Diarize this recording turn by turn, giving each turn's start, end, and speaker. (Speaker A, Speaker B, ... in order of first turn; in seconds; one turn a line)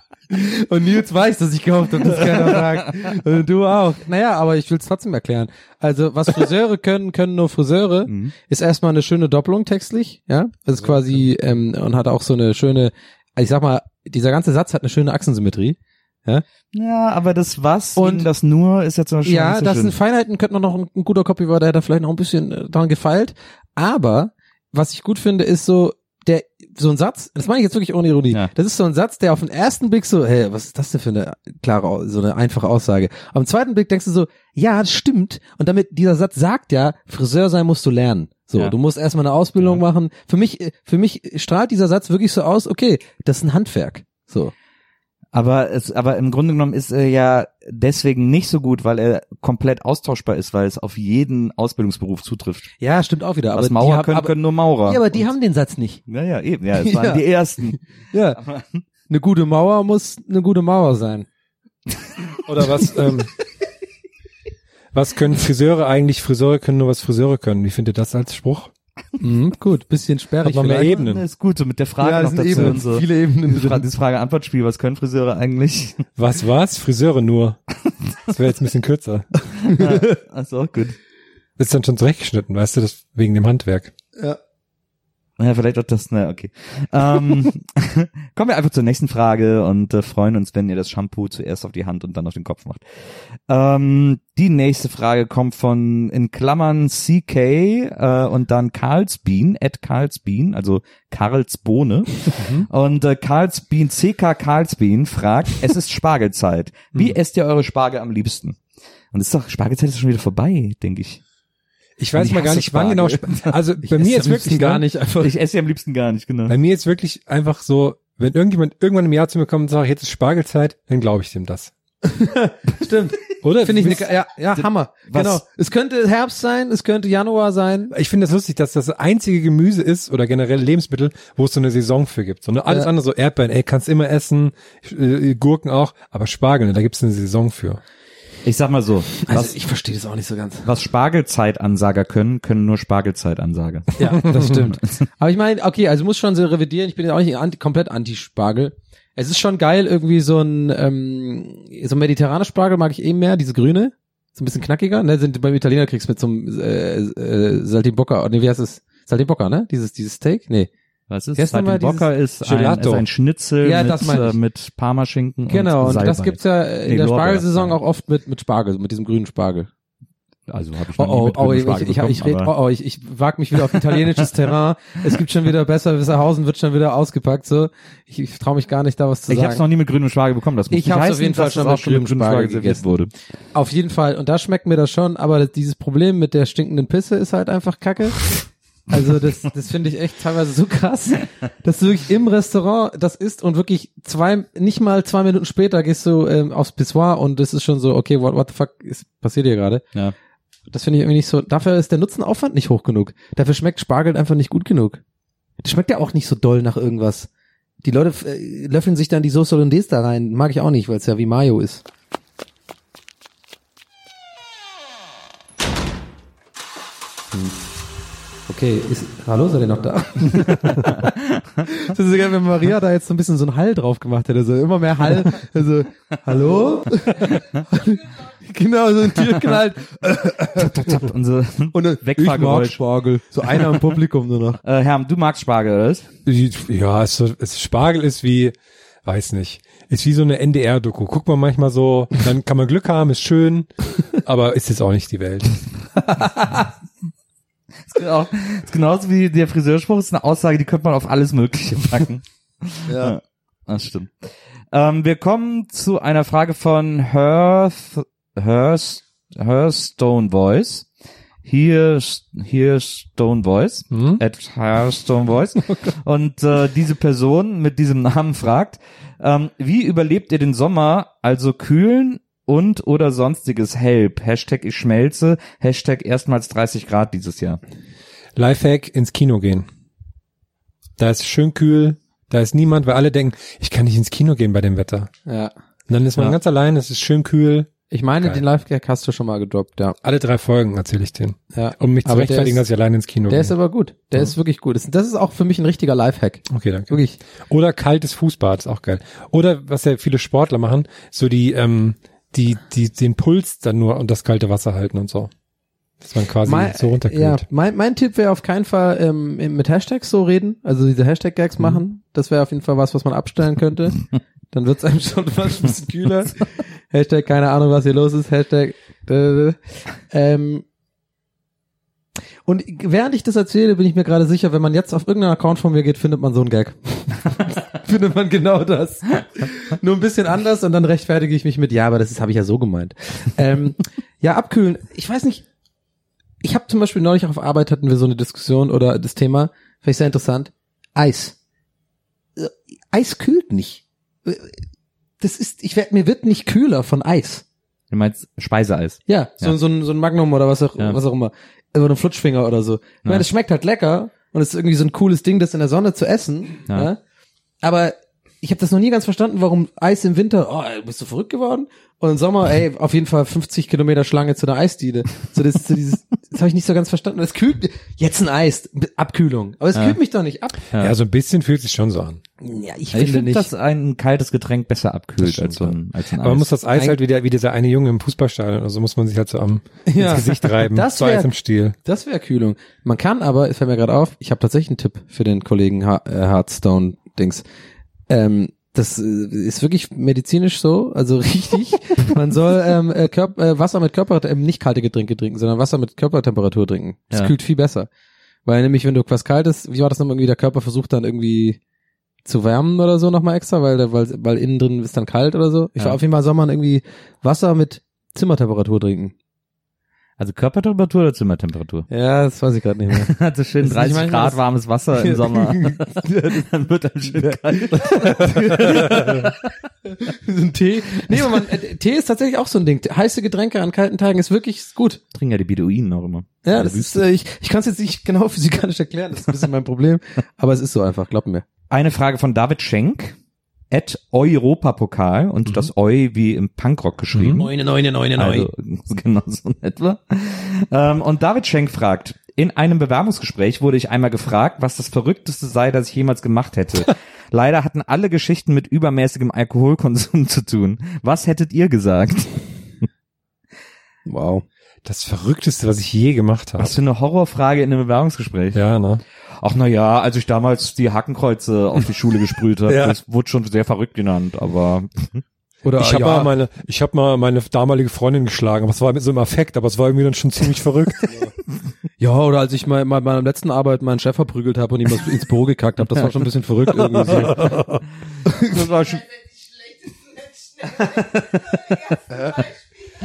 Speaker A: 0.3-16.4
Speaker B: 8.1-8.3
Speaker B: 16.7-19.9
Speaker A: 18.0-18.3
Speaker A: 19.2-44.5
Speaker B: 39.6-39.8
Speaker B: 45.3-52.7
Speaker A: 52.8-54.3
Speaker B: 53.5-55.3
Speaker A: 54.9-56.0
Speaker B: 56.1-57.8
Speaker A: 56.8-58.4
Speaker B: 58.3-58.8
Speaker A: 59.1-61.2
Speaker C: 62.5-63.3
Speaker C: 64.9-68.7
Speaker A: 69.2-71.0
Speaker C: 70.4-71.2
Speaker B: 70.8-76.0
Speaker A: 72.0-73.8
Speaker C: 72.5-72.8
Speaker C: 76.2-77.6
Speaker C: 78.3-79.3
Speaker B: 79.7-81.0
Speaker A: 79.7-80.0
Speaker C: 81.6-83.9
Speaker B: 85.4-92.8
Speaker B: 93.5-108.6
Speaker C: 102.4-102.7
Speaker B: 109.1-111.2
Speaker C: 112.0-114.8
Speaker B: 112.2-113.5
Speaker A: 113.8-115.3
Speaker B: 115.2-116.5
Speaker C: 116.5-121.7
Speaker A: 122.0-127.9
Speaker C: 123.4-124.1
Speaker B: 124.6-125.4
Speaker C: 127.9-137.8
Speaker B: 138.4-139.6
Speaker A: 139.2-140.7
Speaker B: 140.6-143.9
Speaker A: 144.0-160.7
Speaker B: 161.1-167.8
Speaker A: 161.4-162.1
Speaker C: 162.4-163.0
Speaker A: 163.6-164.3
Speaker A: 165.5-169.7
Speaker B: 170.5-172.5
Speaker A: 170.9-179.6
Speaker B: 173.7-174.0
Speaker B: 179.3-183.1
Speaker A: 180.7-182.8
Speaker A: 183.5-188.3
Speaker A: 188.9-199.8
Speaker A: 200.7-205.0
Speaker A: 205.6-207.3
Speaker A: 207.8-211.8
Speaker A: 217.3-217.6
Speaker A: 218.5-221.1
Speaker A: 221.6-231.0
Speaker B: 230.6-232.8
Speaker A: 231.7-234.6
Speaker B: 233.5-233.8
Speaker B: 234.6-236.1
Speaker C: 236.2-245.6
Speaker A: 246.2-246.5
Speaker B: 247.9-260.9
Speaker A: 252.9-253.1
Speaker B: 261.4-277.6
Speaker C: 263.9-264.2
Speaker C: 278.4-279.7
Speaker C: 281.0-285.1
Speaker A: 285.3-285.5
Speaker C: 285.9-288.4
Speaker A: 287.9-290.0
Speaker C: 290.0-293.5
Speaker A: 291.5-292.6
Speaker A: 293.3-297.2
Speaker C: 296.5-305.3
Speaker C: 306.0-307.4
Speaker A: 306.4-319.6
Speaker A: 320.1-320.6
Speaker A: 322.4-335.4
Speaker A: 336.4-341.3
Speaker A: 342.4-344.6
Speaker A: 345.2-347.4
Speaker B: 347.9-349.6
Speaker A: 349.1-357.0
Speaker A: 357.6-370.6
Speaker C: 370.8-372.2
Speaker A: 372.4-373.5
Speaker B: 372.9-376.5
Speaker C: 375.2-381.8
Speaker A: 376.7-377.0
Speaker A: 379.9-381.3
Speaker A: 381.8-387.4
Speaker A: 388.1-397.9
Speaker A: 398.4-401.6
Speaker A: 402.2-409.1
Speaker B: 410.2-411.9
Speaker A: 411.9-414.4
Speaker B: 412.9-419.3
Speaker A: 415.0-416.5
Speaker A: 417.1-425.0
Speaker B: 425.1-427.1
Speaker A: 426.4-431.4
Speaker B: 431.7-433.1
Speaker B: 433.7-437.5
Speaker C: 437.1-437.5
Speaker A: 437.4-438.5
Speaker B: 438.1-452.4
Speaker A: 454.1-454.4
Speaker C: 454.8-456.7
Speaker B: 456.6-458.6
Speaker C: 458.5-459.0
Speaker B: 459.4-465.2
Speaker C: 462.7-463.0
Speaker A: 465.6-466.3
Speaker C: 465.8-471.2
Speaker A: 472.0-477.5
Speaker C: 477.1-477.8
Speaker A: 478.2-478.7
Speaker B: 478.4-479.1
Speaker B: 480.9-481.9
Speaker A: 482.1-482.5